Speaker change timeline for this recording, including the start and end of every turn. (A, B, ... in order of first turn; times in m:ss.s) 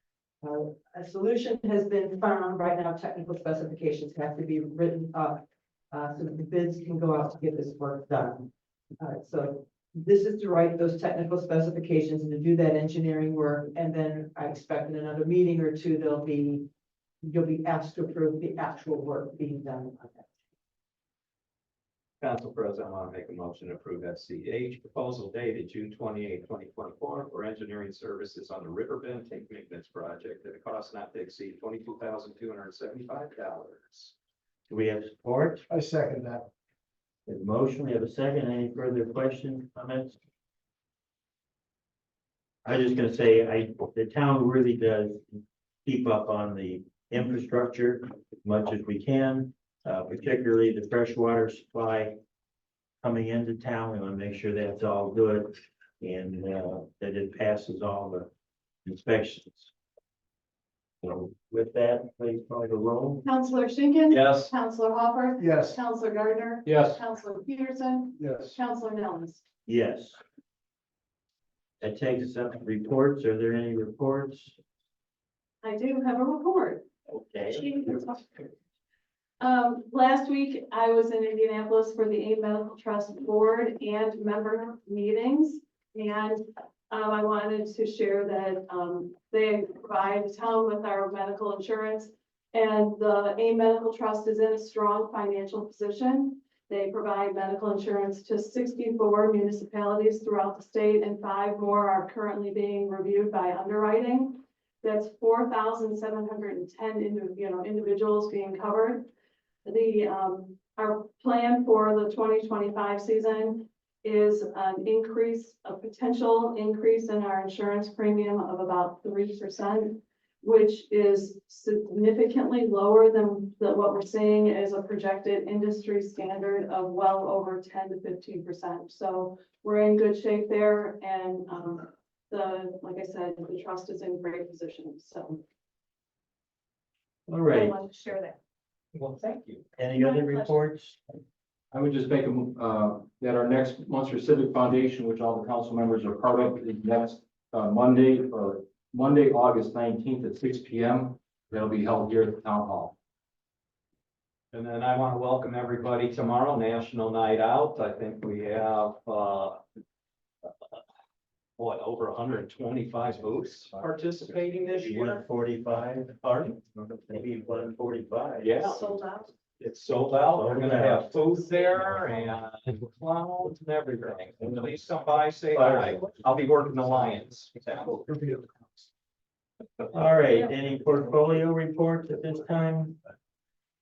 0:00.4-0:16.7 A
0:17.2-0:20.3 A
0:22.2-0:34.1 B
0:34.7-0:35.6 C
0:35.7-0:36.5 D
0:37.3-0:40.2 C
0:42.6-0:52.2 C
0:53.0-0:58.3 C
0:58.8-0:59.7 C
1:01.0-1:03.2 C
1:03.2-1:09.4 E
1:04.1-1:04.5 B
1:05.4-1:05.8 D
1:06.6-1:06.9 F
1:08.2-1:08.6 D
1:09.7-1:10.2 C
1:11.8-1:14.6 C
1:15.6-1:16.9 E
1:17.1-1:17.6 C
1:17.5-1:18.4 E
1:19.4-1:49.1 E
1:49.6-2:15.4 E
2:17.3-2:17.8 C
2:17.5-2:18.4 E
2:18.9-2:19.6 B
2:19.8-2:21.0 C
2:19.9-2:20.6 E
2:21.7-2:33.0 F
2:34.5-2:39.6 B
2:41.6-2:45.2 B
2:44.8-2:48.6 C
2:48.4-2:48.8 B
2:48.7-2:49.3 E
2:49.6-2:58.1 B
2:50.3-2:51.1 C
2:58.1-2:58.4 D
2:59.9-3:03.0 C